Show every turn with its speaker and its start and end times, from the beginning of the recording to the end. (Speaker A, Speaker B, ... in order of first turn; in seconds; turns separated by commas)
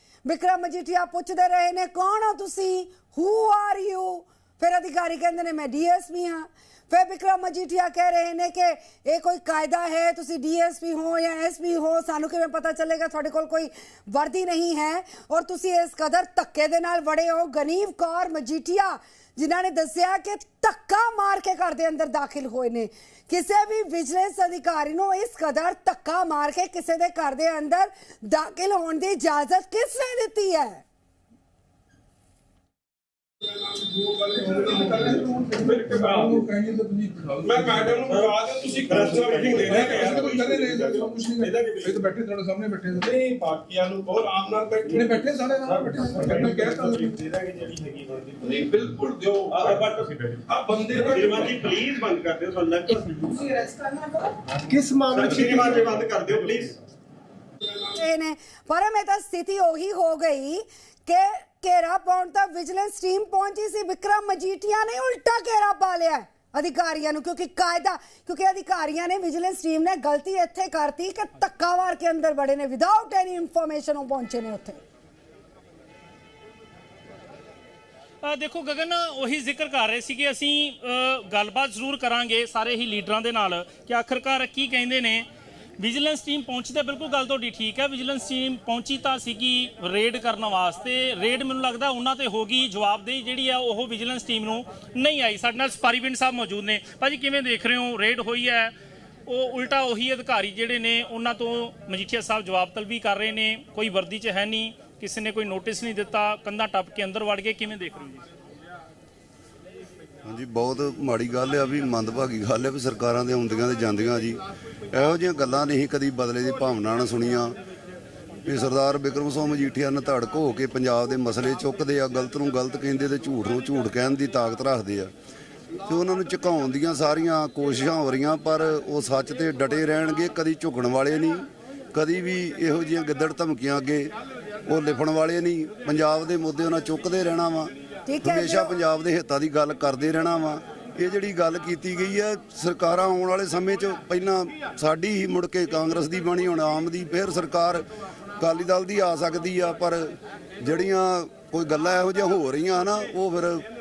Speaker A: 0.2-30.8, Speaker B: 33.6-36.5, Speaker C: 34.4-37.8, Speaker B: 37.4-42.1, Speaker D: 38.8-39.6, Speaker C: 39.7-43.1, Speaker B: 42.9-47.4, Speaker C: 45.0-47.1, Speaker D: 47.2-48.3, Speaker B: 48.3-52.1, Speaker D: 49.6-50.4, Speaker D: 51.2-53.4, Speaker B: 54.7-56.5, Speaker D: 54.8-56.7, Speaker A: 57.9-74.8, Speaker E: 78.2-85.3, Speaker E: 85.8-98.7, Speaker E: 99.3-108.2, Speaker F: 110.3-114.4, Speaker F: 114.9-117.6, Speaker F: 118.5-125.1, Speaker F: 125.9-134.1, Speaker F: 134.7-147.8, Speaker A: 138.1-138.7, Speaker F: 148.4-153.6